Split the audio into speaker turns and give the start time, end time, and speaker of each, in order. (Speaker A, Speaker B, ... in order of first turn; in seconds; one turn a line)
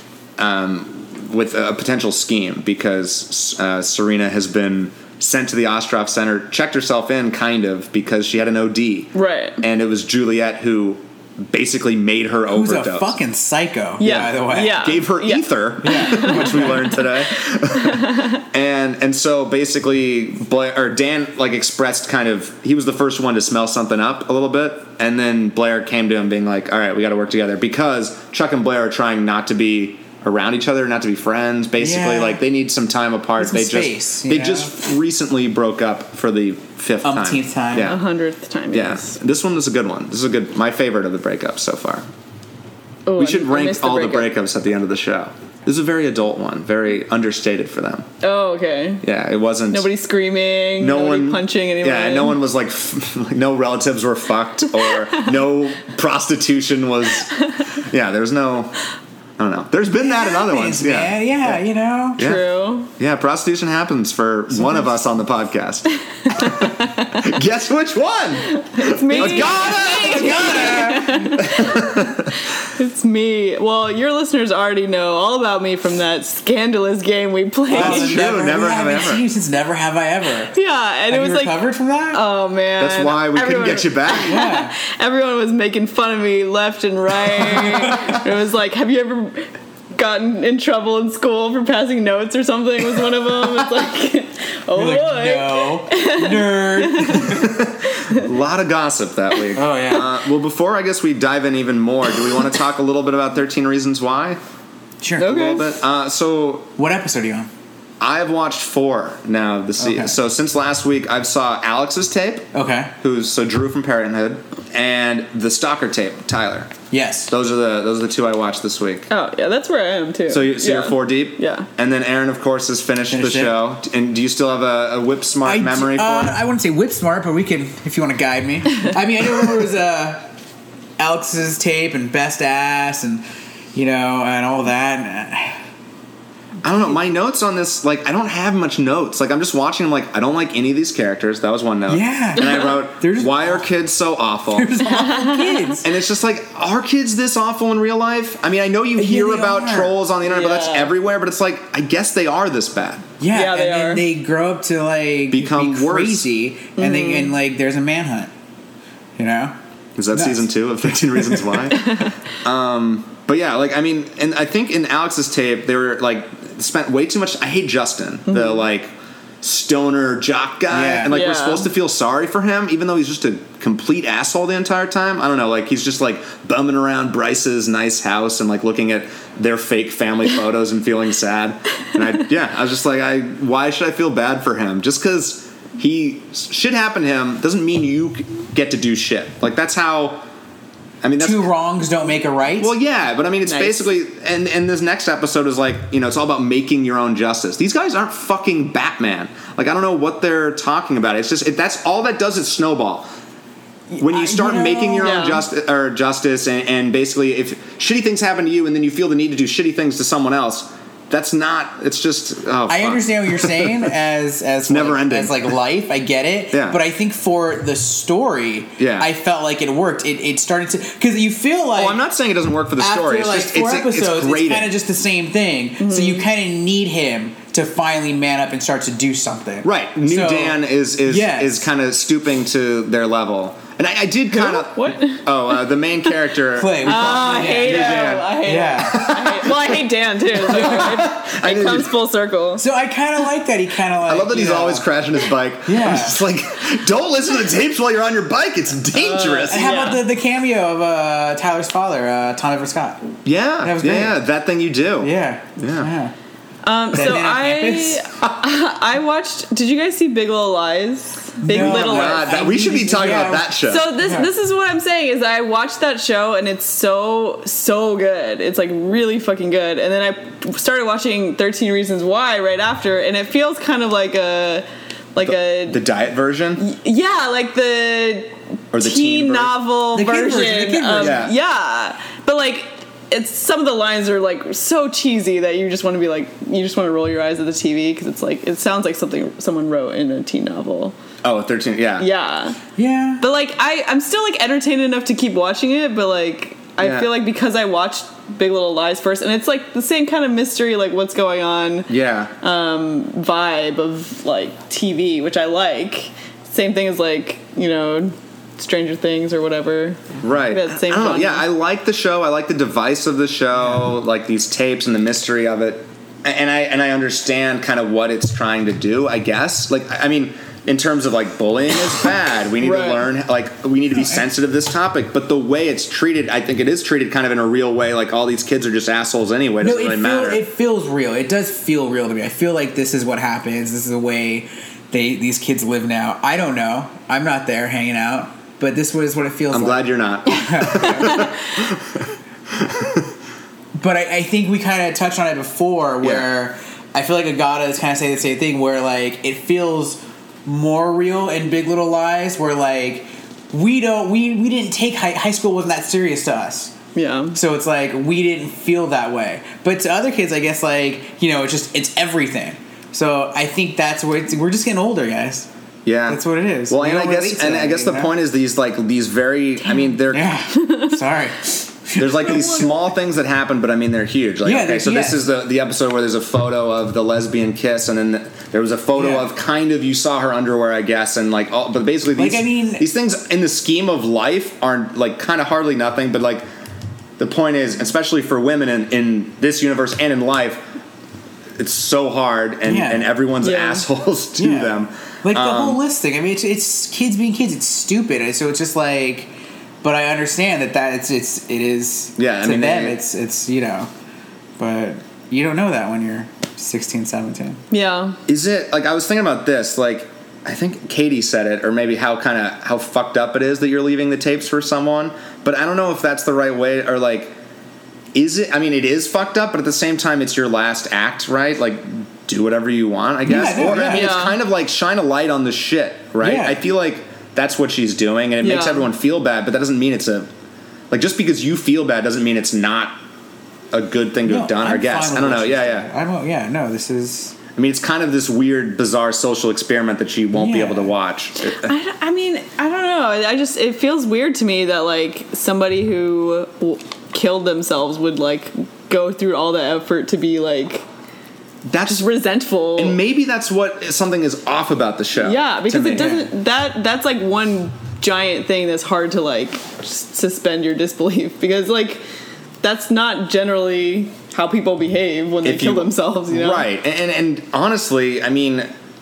Speaker A: 0.4-13.2
Speaker B: 9.1-9.6
Speaker C: 12.5-14.9
Speaker B: 14.0-17.1
Speaker A: 14.0-38.0
Speaker C: 15.8-16.9
Speaker B: 17.8-18.4
Speaker C: 31.8-32.4
Speaker C: 33.4-34.8
Speaker C: 37.0-37.9
Speaker B: 37.8-39.1
Speaker A: 38.7-42.0
Speaker B: 43.0-44.3
Speaker A: 43.2-48.1
Speaker B: 48.2-49.0
Speaker A: 49.0-49.9
Speaker B: 49.7-52.4
Speaker A: 50.8-58.8
Speaker A: 59.4-61.6
Speaker C: 59.9-62.3
Speaker A: 62.2-62.4
Speaker B: 62.2-62.9
Speaker A: 63.0-72.3
Speaker C: 64.5-65.0
Speaker B: 66.3-67.2
Speaker B: 68.5-78.3
Speaker C: 69.1-71.6
Speaker A: 77.7-79.2
Speaker C: 77.7-80.5
Speaker B: 80.5-98.2
Speaker C: 81.1-82.2
Speaker A: 82.8-84.4
Speaker C: 84.2-84.8
Speaker C: 87.5-87.9
Speaker C: 94.7-97.5
Speaker A: 97.2-104.4
Speaker C: 99.5-100.2
Speaker C: 105.0-105.4
Speaker B: 105.2-105.7
Speaker A: 105.2-106.7
Speaker C: 106.8-107.5
Speaker A: 108.0-112.5
Speaker C: 109.8-110.2
Speaker C: 112.5-112.9
Speaker A: 113.0-116.7
Speaker C: 116.9-117.3
Speaker A: 117.3-119.1
Speaker B: 119.1-121.7
Speaker A: 120.3-126.4
Speaker C: 123.1-123.6
Speaker C: 125.4-130.3
Speaker C: 131.0-133.2
Speaker C: 133.7-135.6
Speaker A: 136.6-144.9
Speaker C: 141.9-143.7
Speaker C: 144.5-145.9
Speaker B: 144.9-145.6
Speaker A: 145.8-153.1
Speaker C: 148.9-150.0
Speaker B: 150.2-150.9
Speaker C: 153.2-158.3
Speaker B: 153.3-154.1
Speaker A: 155.3-156.3
Speaker B: 156.8-157.3
Speaker C: 159.2-159.5
Speaker A: 159.9-168.9
Speaker C: 160.1-161.6
Speaker B: 161.8-162.1
Speaker B: 168.3-168.6
Speaker A: 169.4-190.2
Speaker C: 170.7-171.1
Speaker B: 171.1-171.7
Speaker A: 191.0-191.5
Speaker C: 191.2-192.8
Speaker A: 192.6-203.1
Speaker B: 193.4-193.8
Speaker C: 203.9-205.2
Speaker A: 204.0-213.9
Speaker B: 205.0-205.4
Speaker C: 212.7-222.0
Speaker A: 214.7-215.5
Speaker A: 216.5-216.8
Speaker A: 218.8-219.1
Speaker A: 221.7-224.7
Speaker C: 222.8-231.7
Speaker B: 225.8-226.3
Speaker A: 229.6-241.9
Speaker B: 234.3-236.2
Speaker C: 236.6-239.1
Speaker B: 236.8-242.6
Speaker C: 240.5-240.8
Speaker C: 242.6-244.8
Speaker A: 244.0-249.9
Speaker C: 245.6-246.2
Speaker B: 248.9-250.0
Speaker C: 249.5-253.0
Speaker A: 253.2-255.9
Speaker C: 253.6-254.2
Speaker C: 255.0-256.1
Speaker B: 256.6-262.3
Speaker C: 256.9-258.0
Speaker C: 261.4-264.3
Speaker A: 261.5-263.9
Speaker B: 263.6-275.8
Speaker A: 275.2-276.6
Speaker B: 276.6-290.9
Speaker A: 278.7-279.5
Speaker C: 279.9-281.2
Speaker A: 281.0-281.4
Speaker A: 291.2-292.1
Speaker B: 292.0-292.6
Speaker C: 292.8-293.2
Speaker B: 293.2-301.9
Speaker A: 296.8-297.1
Speaker A: 301.9-302.3
Speaker B: 302.4-311.4
Speaker A: 310.2-330.4
Speaker C: 313.6-313.9
Speaker B: 322.6-323.0
Speaker C: 323.9-324.2
Speaker C: 329.6-341.3
Speaker A: 339.5-343.1
Speaker B: 341.0-341.3
Speaker C: 343.7-356.7
Speaker A: 346.0-346.3
Speaker B: 356.9-357.4
Speaker C: 357.3-365.5
Speaker A: 365.8-370.3
Speaker C: 366.1-368.1
Speaker C: 369.7-372.6
Speaker A: 371.9-386.4
Speaker B: 372.3-372.7
Speaker C: 374.4-375.2
Speaker C: 378.9-379.3
Speaker C: 382.1-382.9
Speaker A: 387.2-390.6
Speaker A: 391.6-395.8
Speaker C: 392.6-393.1
Speaker B: 393.4-393.9
Speaker C: 394.4-399.3
Speaker C: 399.8-403.9
Speaker A: 402.2-403.0
Speaker C: 404.6-407.6
Speaker B: 407.7-408.2
Speaker A: 408.3-417.3
Speaker A: 418.1-430.3
Speaker C: 423.2-424.2
Speaker B: 423.8-424.4
Speaker C: 426.2-426.6
Speaker B: 428.4-428.9
Speaker A: 430.9-433.0
Speaker A: 433.7-435.9
Speaker C: 434.2-437.4
Speaker A: 437.5-441.7
Speaker C: 440.3-440.9
Speaker B: 441.5-450.8
Speaker A: 451.6-452.1
Speaker B: 451.8-453.0
Speaker A: 452.8-456.0
Speaker B: 455.2-462.0
Speaker C: 455.7-456.3
Speaker B: 462.6-466.7
Speaker A: 465.4-468.7